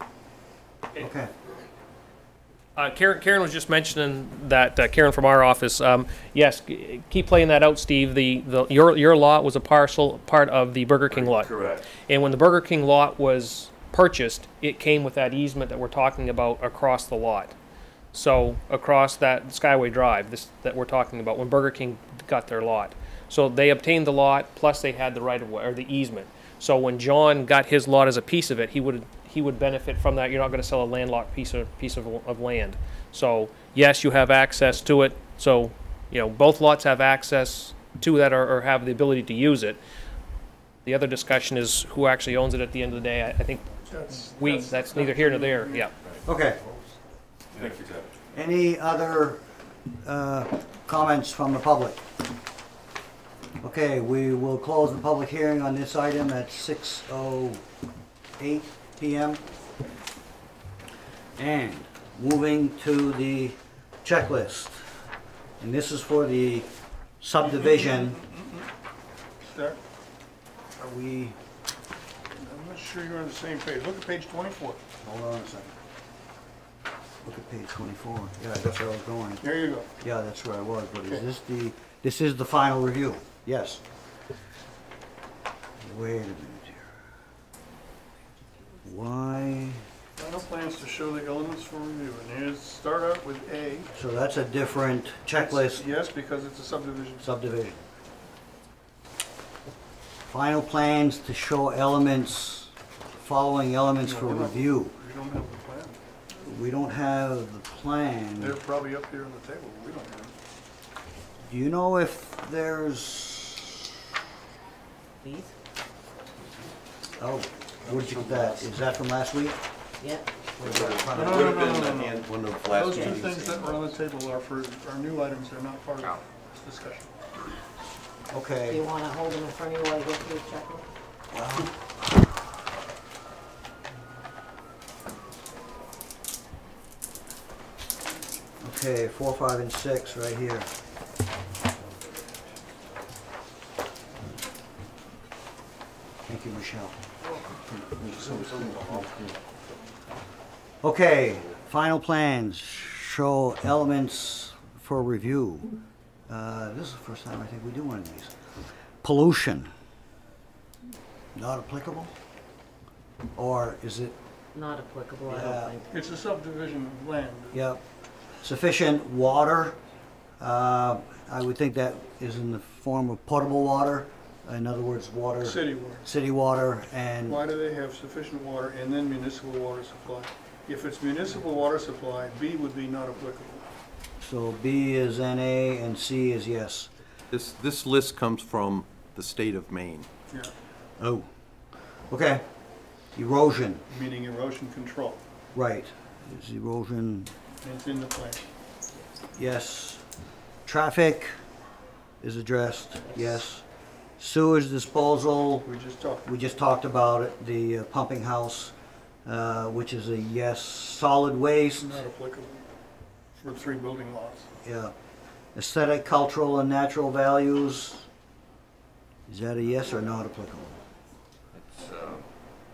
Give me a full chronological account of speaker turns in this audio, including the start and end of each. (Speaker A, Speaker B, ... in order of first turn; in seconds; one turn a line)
Speaker A: 1.0-1.3
Speaker B: 2.8-17.5
Speaker C: 11.4-11.8
Speaker B: 18.1-39.8
Speaker B: 40.8-45.9
Speaker D: 43.9-45.9
Speaker A: 46.2-46.6
Speaker C: 47.5-48.1
Speaker A: 48.3-49.4
Speaker A: 50.0-52.0
Speaker A: 53.6-57.6
Speaker A: 58.4-59.4
Speaker A: 61.4-64.8
Speaker A: 65.6-66.7
Speaker A: 67.2-68.2
Speaker D: 67.4-68.7
Speaker D: 69.5-69.8
Speaker A: 70.8-71.4
Speaker D: 72.3-74.8
Speaker A: 75.0-75.7
Speaker A: 77.2-79.5
Speaker D: 79.4-79.9
Speaker A: 80.0-83.8
Speaker A: 85.8-86.9
Speaker A: 88.8-89.8
Speaker D: 90.2-93.9
Speaker A: 93.9-95.8
Speaker D: 95.3-97.4
Speaker A: 97.2-97.8
Speaker A: 100.3-104.9
Speaker D: 104.0-106.0
Speaker A: 106.4-108.6
Speaker D: 108.4-110.3
Speaker A: 111.5-113.9
Speaker E: 115.2-115.5
Speaker A: 117.2-119.6
Speaker E: 120.0-120.3
Speaker A: 120.5-121.7
Speaker C: 120.6-123.9
Speaker D: 121.1-127.1
Speaker A: 128.3-128.9
Speaker E: 128.7-130.8
Speaker A: 131.3-131.7
Speaker A: 138.6-140.7
Speaker A: 146.3-147.0
Speaker C: 148.0-149.1
Speaker A: 150.8-155.7
Speaker A: 156.3-158.3
Speaker A: 159.0-159.7
Speaker A: 161.3-162.1
Speaker A: 163.3-164.2
Speaker E: 164.5-165.8
Speaker A: 165.3-165.7
Speaker D: 165.9-167.6
Speaker A: 167.5-167.8
Speaker A: 168.4-169.8
Speaker A: 170.4-177.4
Speaker D: 175.4-176.1
Speaker D: 177.3-183.7
Speaker A: 184.2-186.9
Speaker C: 187.3-190.1
Speaker A: 191.0-191.3
Speaker A: 192.1-192.4
Speaker A: 193.1-193.8
Speaker D: 193.9-195.2
Speaker A: 195.5-197.3
Speaker D: 197.6-198.4
Speaker A: 199.3-200.0
Speaker A: 200.7-201.3
Speaker A: 202.2-203.6
Speaker A: 204.2-205.7
Speaker D: 205.6-206.2
Speaker A: 206.2-208.7
Speaker A: 209.2-212.0
Speaker D: 211.8-212.7
Speaker D: 213.3-214.5
Speaker A: 214.6-214.9
Speaker A: 215.5-218.1
Speaker A: 219.3-220.8
Speaker C: 221.7-222.2